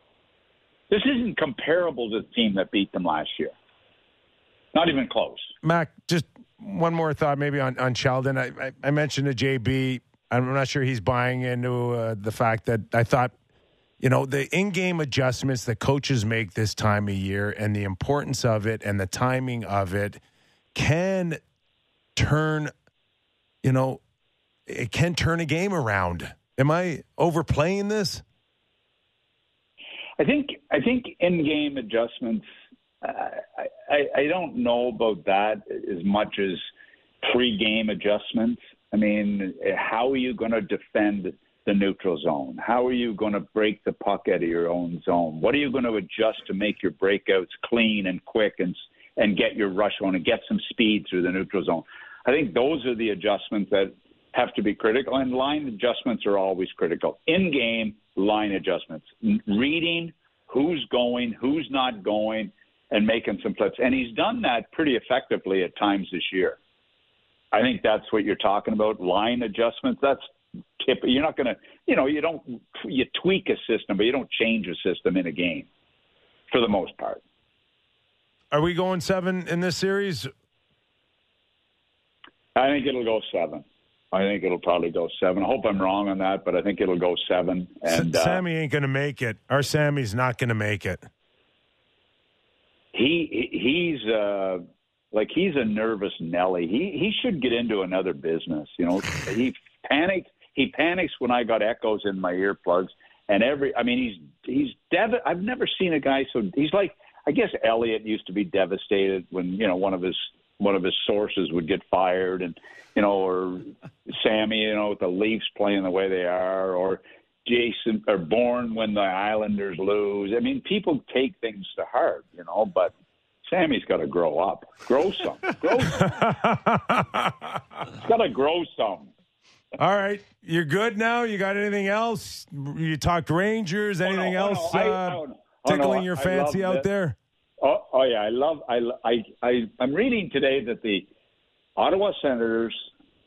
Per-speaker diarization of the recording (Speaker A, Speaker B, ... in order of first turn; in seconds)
Speaker A: 0.9-3.5, 4.7-5.5, 30.2-32.5, 33.0-36.6, 37.2-66.6, 67.5-70.2, 70.8-75.7, 76.5-77.2, 82.5-88.4, 92.9-122.9, 123.5-126.3, 127.9-129.1, 134.0-136.8, 137.6-141.1, 141.8-142.9
Speaker B: 5.6-13.3, 14.0-20.2, 20.8-21.4, 22.2-22.7, 23.6-24.0, 24.7-28.2, 78.5-80.3, 87.9-91.0, 125.9-127.6, 129.8-137.2